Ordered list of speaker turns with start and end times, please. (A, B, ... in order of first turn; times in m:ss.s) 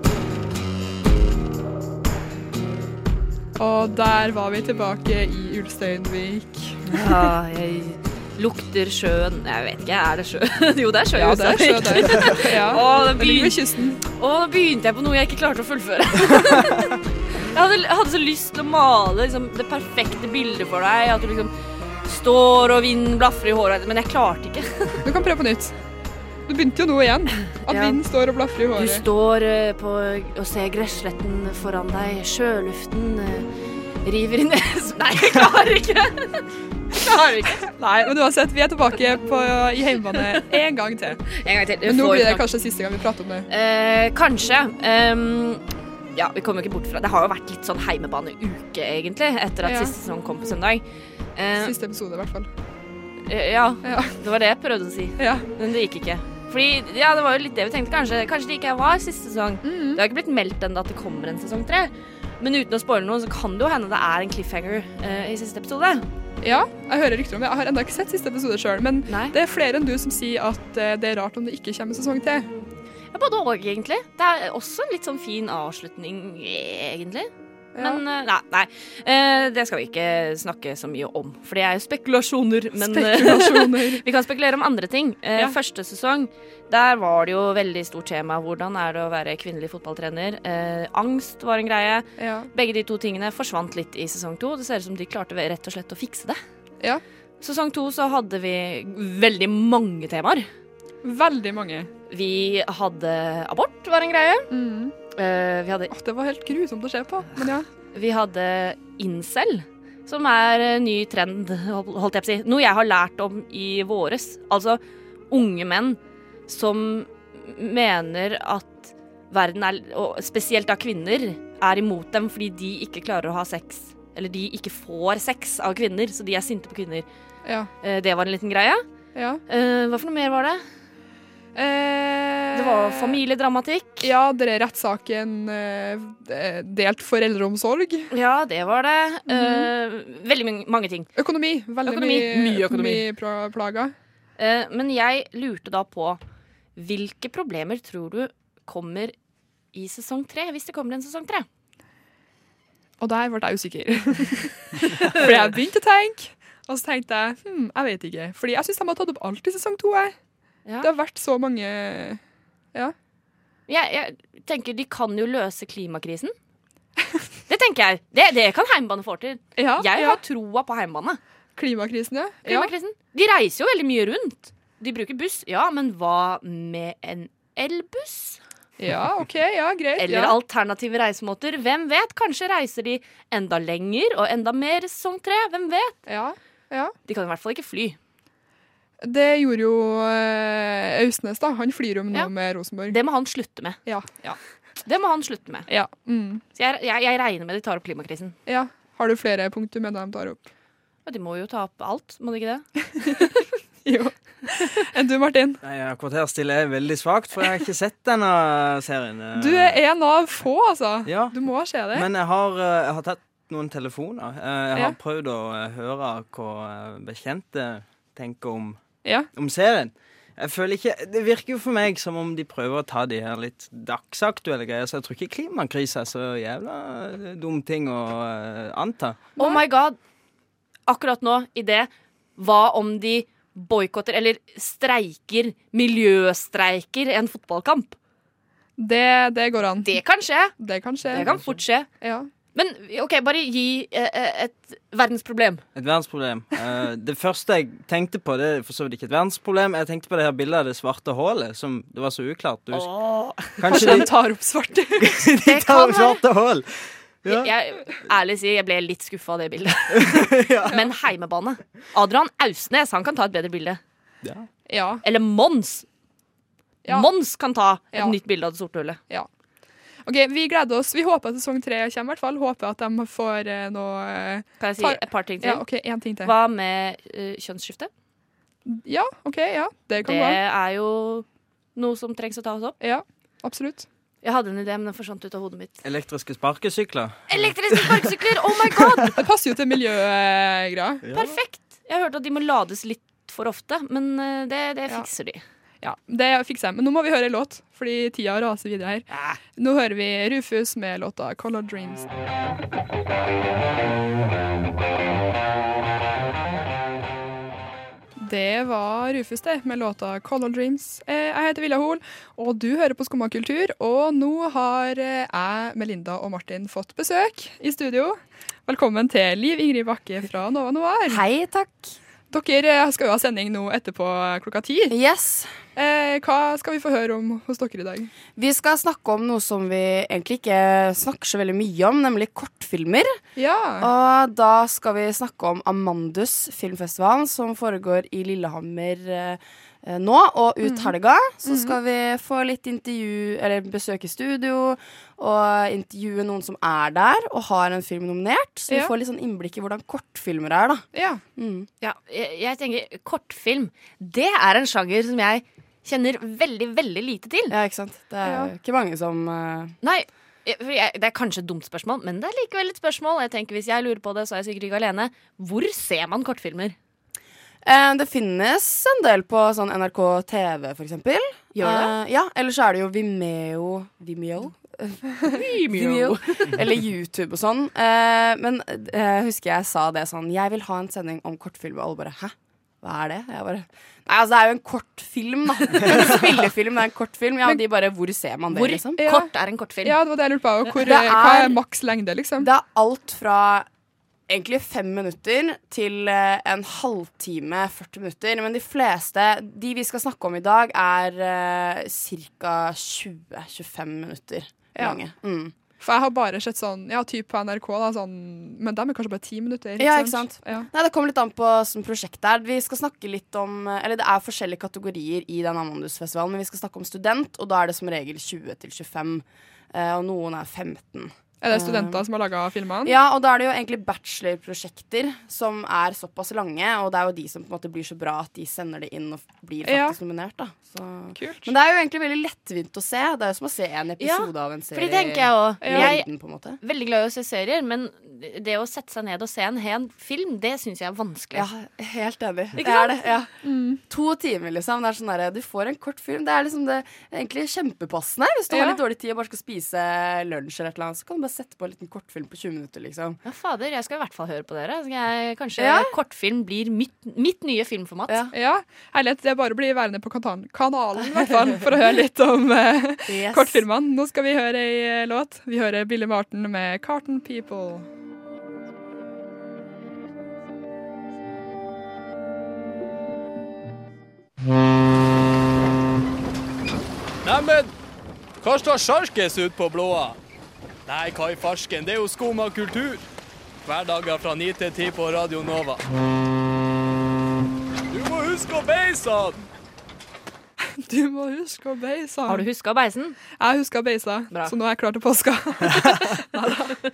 0:03.6-0:07.1 A
0:06.9-0:21.5 B
0:11.2-0:14.0 A
0:22.0-0:25.0 B
0:25.0-0:25.8 A
0:26.4-0:29.0 A
0:27.6-0:28.0 B
0:28.8-0:33.5 B
0:34.0-0:37.7 B
0:37.7-0:41.2 A
0:41.4-0:42.5 B
0:41.8-0:43.5 A
0:43.5-0:45.6 B
0:46.1-0:50.8 B
0:49.6-0:49.9 A
0:51.4-0:51.7 B
0:51.6-0:52.5 A
0:53.2-1:06.0 B
0:53.8-0:54.2 A
0:55.2-0:55.5 A
0:59.6-1:00.0 A
1:06.4-1:12.5 A
1:09.1-1:09.3 B
1:13.1-1:36.4 B
1:17.7-1:18.0 A
1:22.8-1:24.0 A
1:32.2-1:32.5 A
1:37.4-1:40.5 B
1:41.0-1:41.9 A
1:42.1-1:44.5 B
1:44.5-1:44.9 A
1:45.1-1:45.9 B
1:45.9-1:47.7 A
1:47.9-1:54.8 B
1:55.3-2:07.0 B
2:07.4-2:07.7 A
2:07.8-2:08.8 B
2:09.1-2:09.4 A
2:09.5-2:10.6 B
2:11.5-2:13.2 A
2:12.5-2:14.1 B
2:14.0-2:18.1 A
2:18.1-2:21.1 B
2:19.3-2:19.7 A
2:21.2-2:23.9 A
2:21.8-2:23.1 B
2:24.4-2:26.2 B
2:26.8-2:29.1 B
2:29.7-2:31.5 B
2:33.0-2:40.2 A
2:34.8-2:35.3 B
2:40.8-2:42.2 A
2:43.7-2:46.3 B
2:47.5-2:51.2 B
2:49.6-2:50.2 A
2:51.6-2:52.7 A
2:52.4-2:58.4 B
2:58.8-3:00.4 A
3:00.0-3:06.0 B
3:06.1-3:06.9 A
3:07.0-3:08.0 B
3:09.0-3:13.0 A
3:12.9-3:13.8 B
3:13.8-3:14.4 A
3:14.8-3:15.7 B
3:15.7-3:16.4 A
3:16.5-3:18.4 B
3:18.4-3:20.5 A
3:21.0-3:22.7 B
3:23.0-3:25.6 A
3:25.6-3:29.8 C
3:29.4-3:32.1 A
3:31.0-3:31.4 C
3:31.9-3:49.2 C
3:49.4-3:49.6 A
3:49.4-3:50.0 B
3:50.9-3:58.0 B
3:58.8-4:00.0 A
3:59.8-4:01.9 B
4:00.5-4:02.3 A
4:02.5-4:05.6 B
4:05.7-4:12.9 C
4:12.7-4:14.1 B
4:13.5-4:14.1 C
4:13.7-4:15.2 A
4:15.0-4:17.5 C
4:15.4-4:16.2 B
4:17.2-4:23.8 B
4:20.0-4:20.7 C
4:24.7-4:25.0 A
4:25.0-4:25.8 B
4:26.9-4:29.0 B
4:30.0-4:36.3 A
4:34.6-4:35.6 B
4:36.2-4:37.9 B
4:38.6-4:40.4 A
4:40.0-4:42.8 B
4:42.8-4:43.8 A
4:44.2-4:45.8 B
4:45.8-4:48.1 C
4:47.3-4:49.2 B
4:49.0-4:51.0 A
4:51.0-4:51.4 C
4:51.1-4:55.4 B
4:55.8-5:02.1 A
4:59.1-4:59.4 B
5:08.2-5:21.2 A
5:21.1-5:21.8 D
5:22.3-5:24.9 A
5:24.9-5:25.5 D
5:25.8-5:28.1 A
5:28.4-5:33.2 D
5:33.4-5:33.9 A
5:33.8-5:51.7 D
5:40.6-5:40.9 A
5:41.4-5:41.8 A
5:50.9-5:51.2 A
5:51.8-5:57.5 B
5:57.5-5:59.8 D
5:59.8-6:06.7 B
6:07.6-6:29.0 D
6:11.5-6:11.9 B
6:15.2-6:16.6 B
6:25.7-6:26.5 B
6:28.5-6:30.0 B
6:29.0-6:29.3 A
6:29.8-6:32.5 A
6:30.8-6:31.6 D
6:32.4-6:33.7 D
6:34.3-6:45.5 D
6:45.8-6:50.7 A
6:49.8-7:02.1 D
7:01.4-7:02.9 A
7:02.8-7:16.6 D
7:09.6-7:10.0 A
7:11.2-7:11.5 A
7:14.0-7:16.1 B
7:15.6-7:15.9 A
7:16.6-7:21.5 B
7:21.3-7:23.3 D
7:22.6-7:23.2 B
7:23.4-7:23.8 A
7:23.9-7:33.2 D
7:28.5-7:28.8 A
7:33.2-7:38.2 B
7:35.6-7:36.0 D
7:38.1-7:38.3 D
7:38.3-7:47.9 A
7:43.1-7:43.6 B
7:57.2-7:57.7 E
7:58.4-8:00.2 E
8:00.9-8:03.0 E
8:03.6-8:05.8 E
8:07.9-8:09.4 E
8:10.7-8:12.4 A
8:12.3-8:13.2 B
8:13.4-8:16.8 A